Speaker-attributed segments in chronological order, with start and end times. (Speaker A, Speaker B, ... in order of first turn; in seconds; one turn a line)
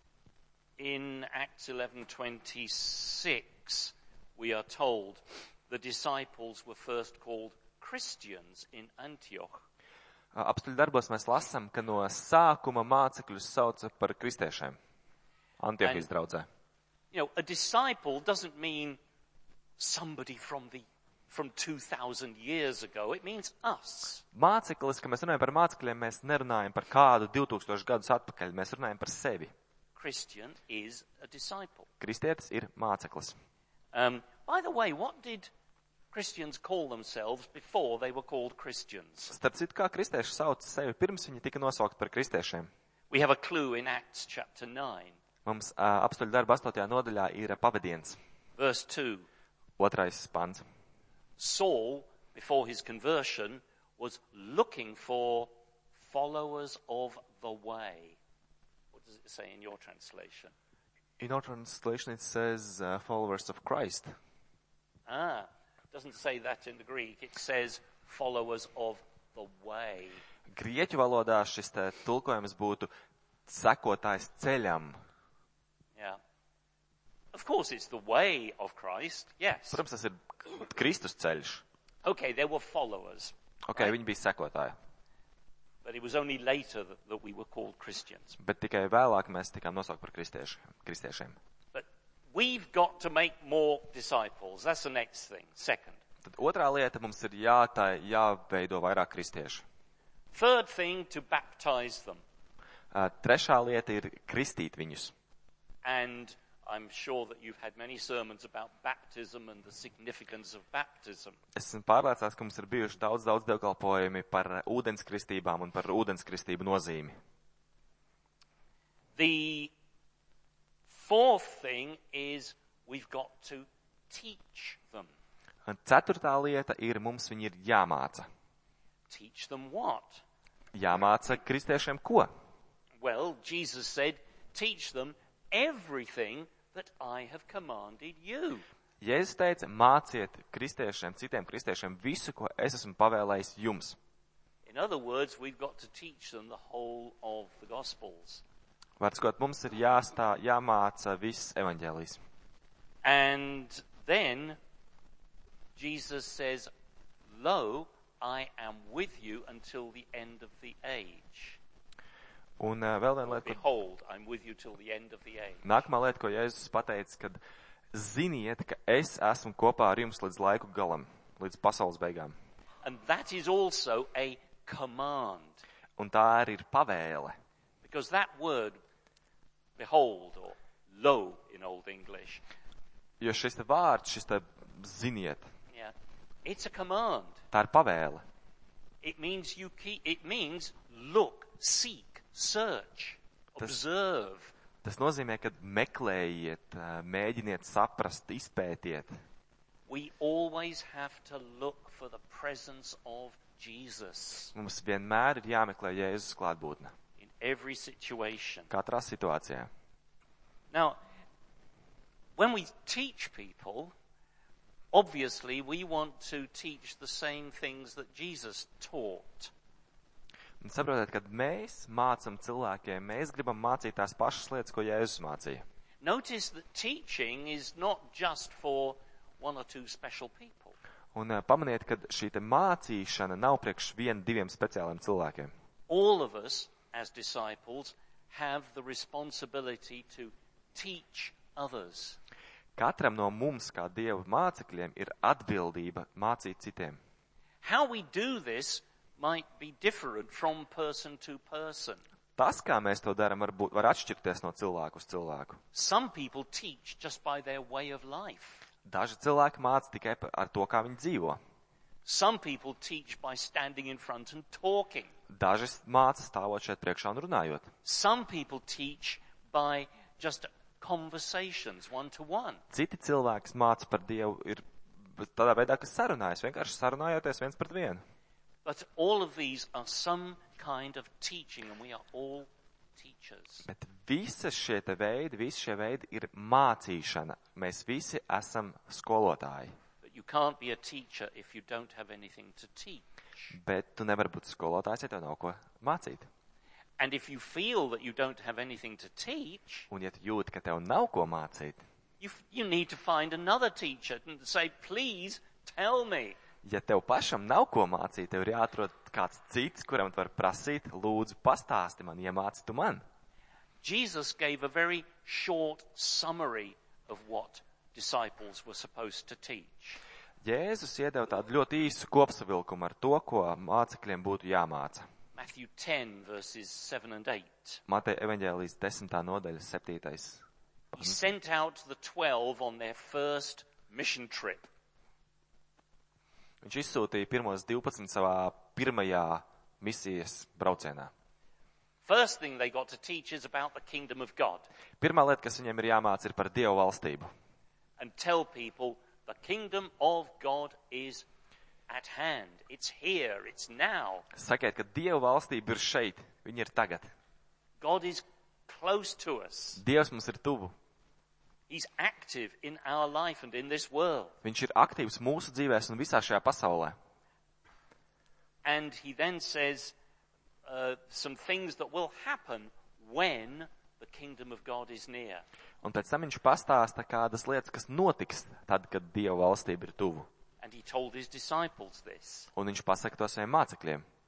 Speaker A: 0.8-9.6
Speaker B: 10.3-14.8
Speaker B: 15.6-16.5
Speaker A: 15.8-16.1
Speaker A: 17.1-19.0
Speaker A: 19.8-24.2
Speaker B: 24.3-29.5
Speaker A: 29.9-31.9
Speaker B: 32.0-33.3
Speaker A: 33.9-35.5
Speaker A: 36.1-39.3
Speaker B: 39.3-42.7
Speaker A: 43.1-45.2
Speaker B: 45.4-48.2
Speaker A: 48.6-49.3
Speaker B: 49.8-50.6
Speaker A: 51.4-58.2
Speaker A: 58.9-60.5
Speaker B: 61.2-64.1
Speaker A: 65.1-70.2
Speaker B: 70.5-72.9
Speaker B: 73.5-75.0
Speaker A: 77.3-79.8
Speaker B: 79.7-81.6
Speaker A: 82.0-83.9
Speaker B: 83.7-84.8
Speaker A: 85.8-88.4
Speaker B: 88.4-91.4
Speaker A: 91.7-96.0
Speaker B: 96.2-99.6
Speaker A: 100.3-102.2
Speaker B: 102.9-105.1
Speaker A: 105.8-111.4
Speaker B: 111.5-117.1
Speaker A: 119.2-119.7
Speaker A: 120.9-125.1
Speaker B: 125.6-128.3
Speaker A: 129.1-130.2
Speaker B: 130.7-132.3
Speaker A: 133.0-138.6
Speaker B: 139.0-144.0
Speaker A: 144.7-148.4
Speaker B: 149.0-152.2
Speaker A: 153.0-154.6
Speaker A: 155.8-156.7
Speaker A: 157.3-161.6
Speaker B: 162.6-163.6
Speaker A: 163.2-165.6
Speaker B: 165.6-167.4
Speaker B: 167.9-172.3
Speaker A: 172.8-175.6
Speaker B: 176.0-177.3
Speaker A: 177.8-178.8
Speaker A: 179.8-182.4
Speaker B: 183.2-185.5
Speaker A: 186.4-187.4
Speaker B: 187.5-188.2
Speaker A: 189.0-194.5
Speaker B: 194.8-199.1
Speaker A: 199.9-204.5
Speaker B: 204.5-206.9
Speaker A: 207.2-208.7
Speaker B: 208.7-209.7
Speaker A: 210.7-211.0
Speaker A: 212.4-213.9
Speaker A: 214.9-219.5
Speaker B: 220.6-225.6
Speaker A: 226.0-230.8
Speaker B: 231.1-235.5
Speaker A: 235.9-242.2
Speaker B: 242.8-247.0
Speaker A: 247.6-252.0
Speaker B: 252.4-255.6
Speaker A: 255.7-258.7
Speaker B: 258.8-261.4
Speaker A: 262.0-265.1
Speaker B: 265.3-267.7
Speaker A: 267.8-272.6
Speaker B: 272.7-278.0
Speaker A: 278.6-283.7
Speaker B: 283.6-289.7
Speaker A: 290.0-293.6
Speaker B: 293.5-296.3
Speaker A: 297.0-299.9
Speaker B: 299.9-301.8
Speaker A: 302.2-306.4
Speaker B: 306.6-313.0
Speaker A: 313.8-320.0
Speaker B: 320.4-325.1
Speaker A: 325.4-327.8
Speaker B: 327.9-330.4
Speaker A: 330.9-334.7
Speaker B: 331.0-331.3
Speaker B: 336.6-341.1
Speaker A: 342.0-344.7
Speaker B: 345.0-347.3
Speaker A: 348.0-351.2
Speaker A: 351.9-354.2
Speaker B: 354.3-357.1
Speaker A: 357.8-359.8
Speaker B: 359.8-360.7
Speaker A: 361.7-364.4
Speaker B: 364.4-366.9
Speaker A: 368.6-369.9
Speaker A: 370.6-375.4
Speaker B: 375.8-380.3
Speaker A: 380.6-382.5
Speaker B: 382.5-384.0